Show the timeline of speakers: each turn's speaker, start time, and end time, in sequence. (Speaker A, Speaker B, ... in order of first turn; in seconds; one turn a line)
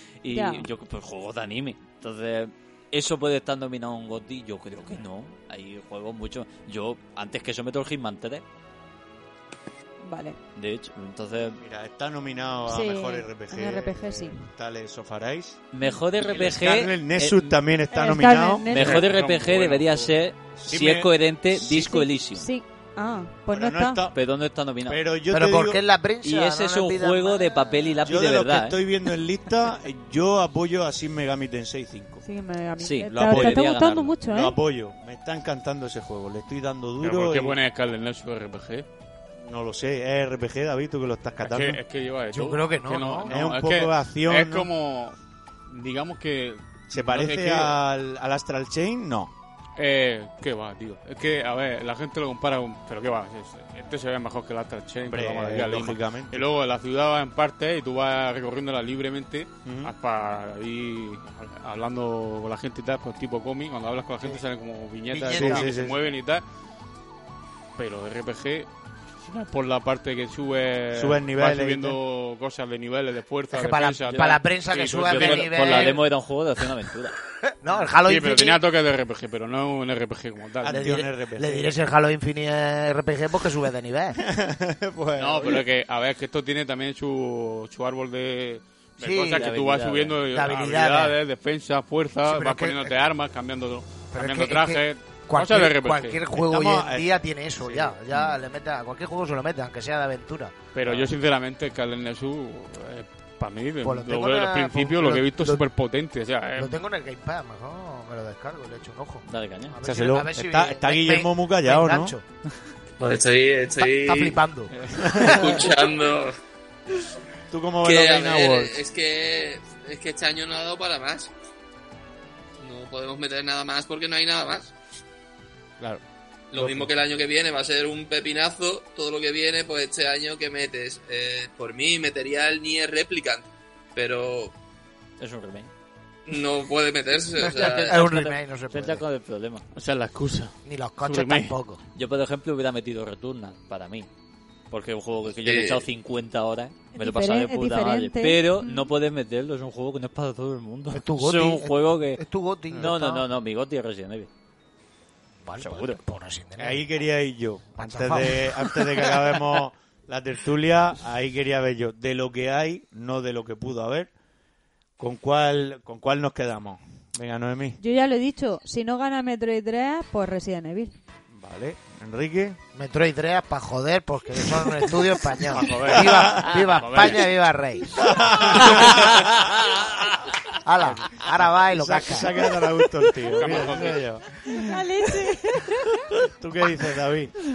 Speaker A: 0.2-8.4
Speaker B: 0.3-0.7
Speaker B: 10.0-10.4
Speaker A: 10.5-11.6
Speaker C: 11.6-19.0
Speaker B: 12.7-14.4
Speaker A: 15.7-17.6
Speaker B: 17.9-19.0
Speaker A: 18.7-22.5
Speaker D: 18.8-20.1
Speaker C: 20.5-21.9
Speaker B: 21.7-24.1
Speaker C: 23.5-24.1
Speaker A: 24.1-25.0
Speaker C: 24.9-25.8
Speaker E: 25.3-27.8
Speaker A: 26.2-28.8
Speaker C: 28.0-32.2
Speaker B: 32.2-34.6
Speaker A: 32.8-34.1
Speaker C: 33.1-33.6
Speaker C: 34.3-37.6
Speaker D: 37.0-38.8
Speaker C: 39.4-41.8
Speaker D: 41.4-45.2
Speaker E: 42.3-43.3
Speaker C: 43.2-44.7
Speaker D: 45.7-47.8
Speaker C: 46.9-49.3
Speaker D: 49.8-66.4
Speaker C: 55.0-56.5
Speaker C: 59.6-59.9
Speaker E: 65.1-65.7
Speaker C: 65.3-66.0
Speaker D: 67.8-68.7
Speaker D: 69.2-76.0
Speaker C: 70.9-72.0
Speaker E: 73.5-76.0
Speaker A: 74.1-74.4
Speaker A: 75.0-77.2
Speaker E: 77.6-78.6
Speaker D: 78.0-80.8
Speaker C: 80.6-81.7
Speaker E: 80.7-84.2
Speaker C: 84.2-85.6
Speaker D: 85.2-96.2
Speaker E: 89.0-89.5
Speaker A: 89.3-90.2
Speaker E: 90.3-91.2
Speaker E: 92.2-92.9
Speaker E: 94.1-100.5
Speaker C: 96.3-97.1
Speaker C: 97.6-97.9
Speaker D: 100.7-106.8
Speaker E: 103.8-105.6
Speaker E: 106.5-112.2
Speaker A: 109.2-109.7
Speaker C: 109.8-112.2
Speaker F: 113.0-114.4
Speaker E: 113.8-115.7
Speaker C: 114.8-115.5
Speaker F: 115.2-116.3
Speaker C: 117.5-118.8
Speaker F: 117.8-121.3
Speaker F: 122.6-124.7
Speaker F: 126.5-134.5
Speaker C: 126.6-126.8
Speaker A: 135.2-135.7
Speaker F: 136.3-138.0
Speaker A: 137.4-139.6
Speaker E: 137.4-139.0
Speaker D: 139.7-141.5
Speaker E: 140.6-141.8
Speaker A: 141.9-144.1
Speaker A: 144.7-154.3
Speaker F: 145.4-145.8
Speaker B: 146.9-148.9
Speaker E: 150.9-153.3
Speaker E: 155.4-156.8
Speaker A: 155.6-156.0
Speaker C: 156.6-164.1
Speaker E: 157.8-159.4
Speaker C: 165.0-167.8
Speaker B: 167.8-170.9
Speaker C: 171.3-172.6
Speaker E: 172.7-178.0
Speaker D: 175.5-177.3
Speaker C: 175.9-176.6
Speaker C: 177.9-179.8
Speaker A: 178.8-179.8
Speaker E: 180.6-182.5
Speaker D: 180.8-181.1
Speaker C: 181.4-184.7
Speaker D: 183.3-184.0
Speaker B: 184.4-186.0
Speaker C: 185.8-187.3